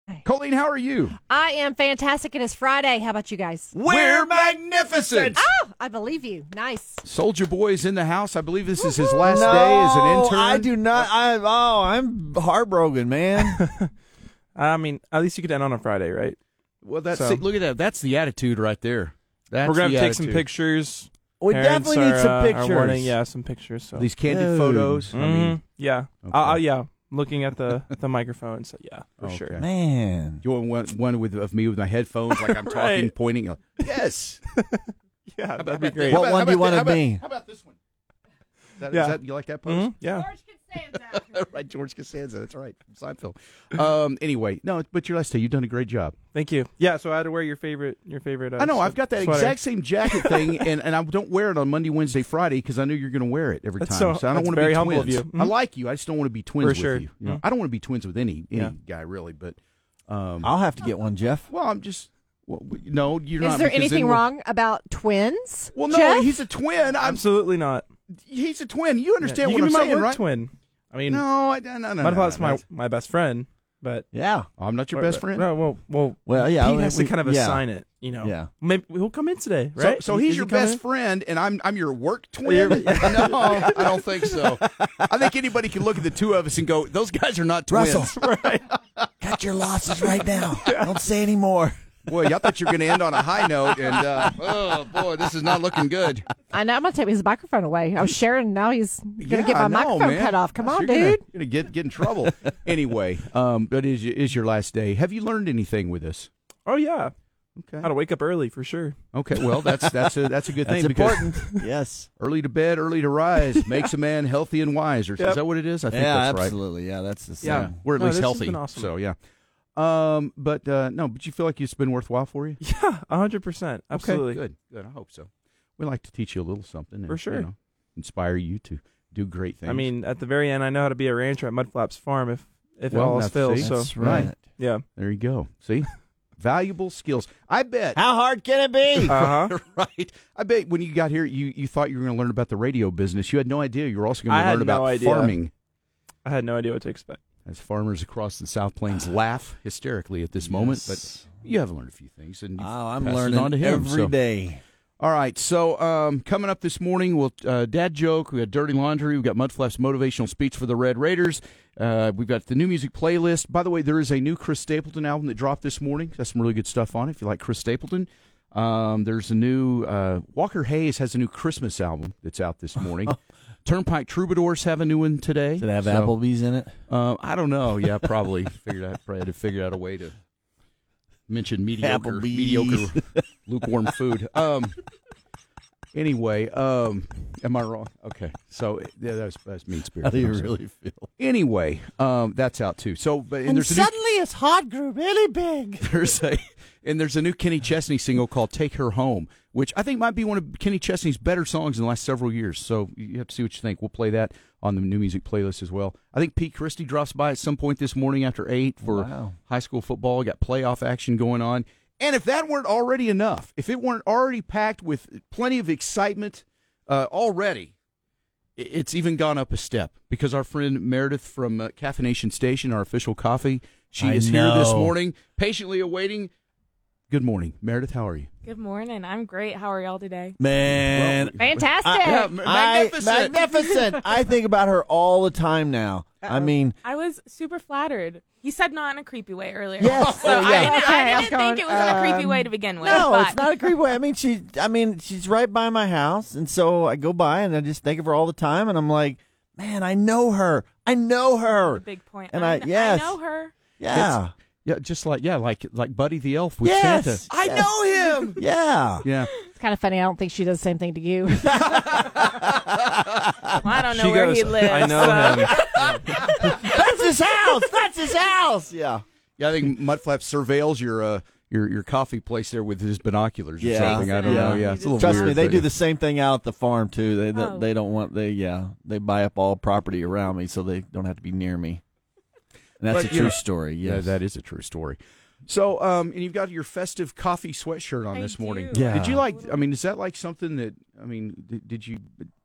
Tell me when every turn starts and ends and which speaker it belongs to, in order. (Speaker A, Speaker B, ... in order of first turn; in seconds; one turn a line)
Speaker A: 0.2-1.2
Speaker B: 1.3-3.7
Speaker C: 3.7-5.4
Speaker A: 3.8-5.5
Speaker B: 5.3-7.0
Speaker A: 7.0-11.1
Speaker C: 9.2-13.6
Speaker D: 13.4-13.9
Speaker D: 14.5-16.4
Speaker A: 16.8-20.5
Speaker D: 17.1-17.4
Speaker D: 19.6-24.1
Speaker C: 21.4-23.1
Speaker A: 24.0-25.6
Speaker C: 24.2-25.1
Speaker D: 25.1-29.6
Speaker A: 26.2-26.6
Speaker A: 29.2-29.6
Speaker C: 29.6-30.4
Speaker A: 30.4-34.4
Speaker D: 32.3-33.1
Speaker D: 34.5-36.2
Speaker A: 35.6-37.8
Speaker C: 36.0-37.2
Speaker A: 38.8-46.1
Speaker D: 38.9-40.3
Speaker D: 46.3-50.6
Speaker A: 48.6-59.6
Speaker D: 53.8-55.5
Speaker D: 56.6-57.4
Speaker A: 60.1-60.5
Speaker C: 60.4-61.5
Speaker A: 61.5-64.2
Speaker B: 63.4-66.4
Speaker A: 65.7-67.2
Speaker D: 67.0-67.8
Speaker A: 68.3-70.2
Speaker D: 69.2-71.2
Speaker A: 71.1-72.6
Speaker D: 72.0-74.0
Speaker C: 74.1-74.5
Speaker A: 74.6-75.5
Speaker D: 74.9-80.8
Speaker C: 76.2-77.6
Speaker C: 78.2-78.5
Speaker A: 79.8-88.1
Speaker D: 82.4-84.0
Speaker C: 82.7-83.2
Speaker C: 87.7-88.1
Speaker D: 88.1-88.7
Speaker C: 89.2-91.7
Speaker D: 90.6-90.9
Speaker A: 92.1-96.4
Speaker B: 96.5-101.2
Speaker A: 99.2-106.3
Speaker D: 106.7-107.1
Speaker A: 107.6-107.9
Speaker D: 107.8-109.0
Speaker A: 109.1-111.4
Speaker C: 109.4-110.0
Speaker C: 110.6-112.1
Speaker A: 112.2-116.6
Speaker C: 115.9-117.7
Speaker D: 117.4-118.9
Speaker A: 117.4-119.2
Speaker A: 119.8-122.6
Speaker D: 122.6-124.4
Speaker A: 123.9-129.9
Speaker D: 127.1-127.5
Speaker D: 129.6-134.8
Speaker A: 132.9-134.3
Speaker C: 133.6-134.4
Speaker A: 134.9-138.0
Speaker C: 137.9-139.2
Speaker A: 138.9-145.5
Speaker D: 139.1-139.5
Speaker D: 144.3-145.4
Speaker D: 146.2-147.2
Speaker A: 147.4-154.1
Speaker C: 150.4-151.2
Speaker C: 152.6-154.6
Speaker A: 155.0-176.1
Speaker C: 175.6-176.7
Speaker A: 176.9-180.2
Speaker A: 181.3-184.8
Speaker C: 181.8-183.2
Speaker A: 185.9-190.5
Speaker C: 190.0-191.1
Speaker A: 191.2-193.9
Speaker C: 193.4-195.9
Speaker A: 195.8-217.7
Speaker C: 208.8-209.3
Speaker A: 218.6-226.3
Speaker C: 224.0-224.9
Speaker A: 227.1-228.3
Speaker E: 228.4-230.4
Speaker C: 230.4-236.7
Speaker A: 230.6-233.5
Speaker B: 231.4-232.3
Speaker E: 236.8-243.4
Speaker C: 239.8-240.8
Speaker A: 239.9-242.0
Speaker B: 240.7-242.5
Speaker C: 242.8-253.2
Speaker E: 251.7-253.5
Speaker C: 253.8-254.3
Speaker A: 253.9-258.4
Speaker C: 256.6-259.0
Speaker A: 259.0-259.4
Speaker B: 259.5-261.9
Speaker C: 261.4-262.4
Speaker A: 261.9-262.2
Speaker E: 263.6-265.9
Speaker D: 263.9-266.5
Speaker C: 266.3-269.0
Speaker A: 269.4-275.7
Speaker C: 273.6-281.8
Speaker E: 273.7-275.6
Speaker E: 277.3-277.7
Speaker C: 282.8-284.2
Speaker A: 282.9-292.3
Speaker E: 288.1-289.6
Speaker C: 288.7-289.2